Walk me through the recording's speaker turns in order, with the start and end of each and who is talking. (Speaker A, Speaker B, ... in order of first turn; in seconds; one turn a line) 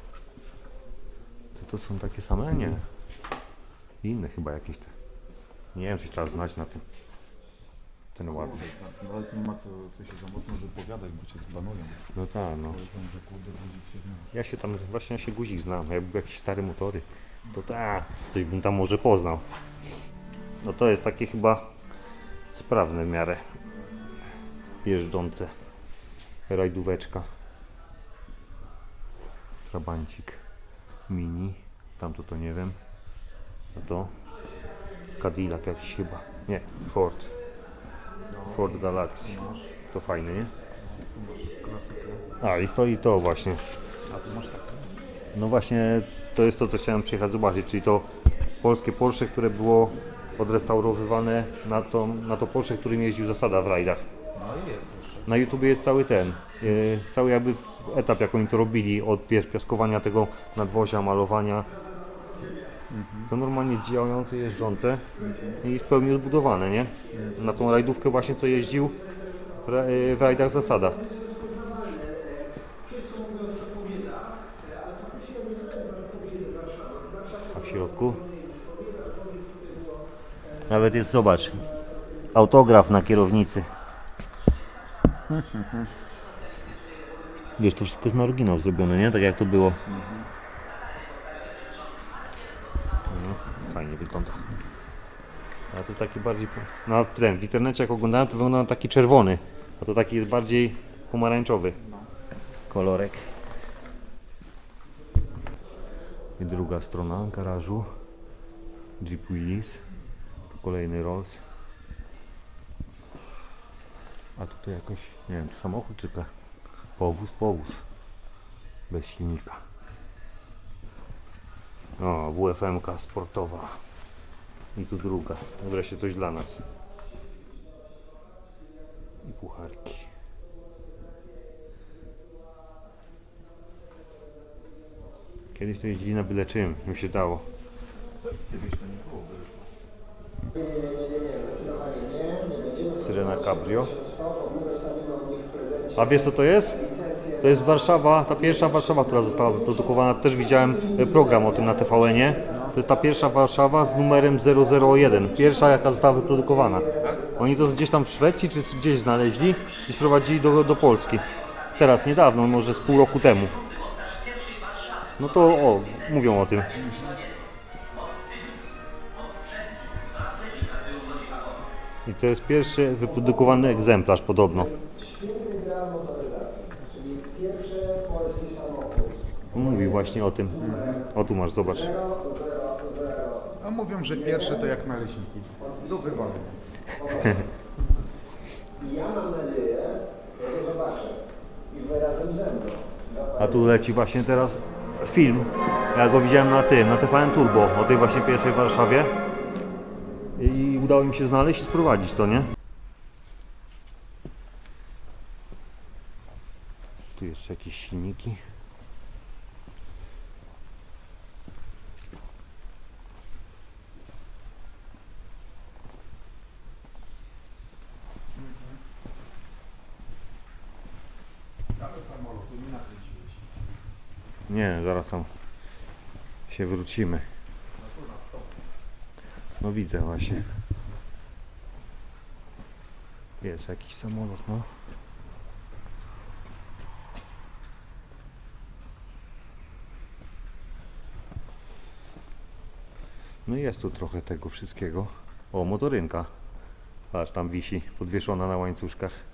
Speaker A: 1.6-2.8
Speaker A: 4.0-4.9
Speaker A: 5.7-6.8
Speaker A: 8.2-8.6
Speaker B: 8.2-12.0
Speaker A: 12.1-12.8
Speaker B: 12.7-14.3
Speaker A: 14.3-19.4
Speaker A: 20.6-21.7
Speaker A: 22.5-23.4
Speaker A: 24.8-25.5
Speaker A: 26.5-27.3
Speaker A: 29.7-30.4
Speaker A: 31.1-32.8
Speaker A: 33.7-34.1
Speaker A: 35.2-37.3
Speaker B: 38.3-39.7
Speaker A: 38.5-39.4
Speaker A: 39.9-40.5
Speaker B: 40.8-42.2
Speaker A: 42.4-43.6
Speaker B: 44.0-44.9
Speaker A: 45.3-48.1
Speaker A: 48.6-54.0
Speaker B: 54.3-55.3
Speaker A: 55.2-61.7
Speaker B: 62.9-63.3
Speaker A: 63.3-69.0
Speaker B: 65.2-65.6
Speaker B: 67.1-67.4
Speaker A: 69.6-71.0
Speaker C: 75.5-76.2
Speaker A: 77.5-78.3
Speaker A: 80.7-81.6
Speaker A: 82.3-83.7
Speaker B: 85.3-85.8
Speaker A: 87.6-89.8
Speaker B: 89.9-90.3
Speaker A: 93.1-94.5
Speaker A: 95.7-101.8
Speaker B: 101.8-102.1
Speaker A: 102.7-103.3
Speaker A: 106.4-107.9
Speaker A: 109.0-109.8
Speaker A: 110.5-111.4
Speaker A: 114.4-116.3
Speaker A: 117.0-117.8
Speaker A: 118.9-119.6
Speaker A: 122.0-123.8
Speaker A: 124.7-126.6
Speaker A: 129.2-130.1
Speaker A: 135.5-137.4
Speaker B: 138.2-139.7
Speaker C: 141.3-142.5
Speaker A: 142.9-144.0
Speaker A: 145.9-163.6
Speaker B: 152.5-152.8
Speaker B: 157.0-157.3
Speaker A: 165.2-166.8
Speaker B: 166.7-167.2
Speaker A: 172.1-174.8
Speaker C: 175.2-176.5
Speaker C: 177.2-179.0
Speaker A: 179.5-182.1
Speaker B: 180.6-181.0
Speaker B: 183.6-186.6
Speaker A: 186.9-187.5
Speaker C: 188.9-191.1
Speaker C: 191.8-192.8
Speaker A: 193.3-199.1
Speaker A: 200.3-202.5
Speaker A: 207.2-208.4
Speaker B: 218.4-218.7
Speaker B: 221.7-223.5
Speaker A: 224.5-225.3
Speaker A: 226.5-227.2
Speaker B: 227.8-228.5
Speaker A: 229.6-230.4
Speaker A: 233.4-234.7
Speaker A: 243.4-246.3
Speaker A: 247.1-249.2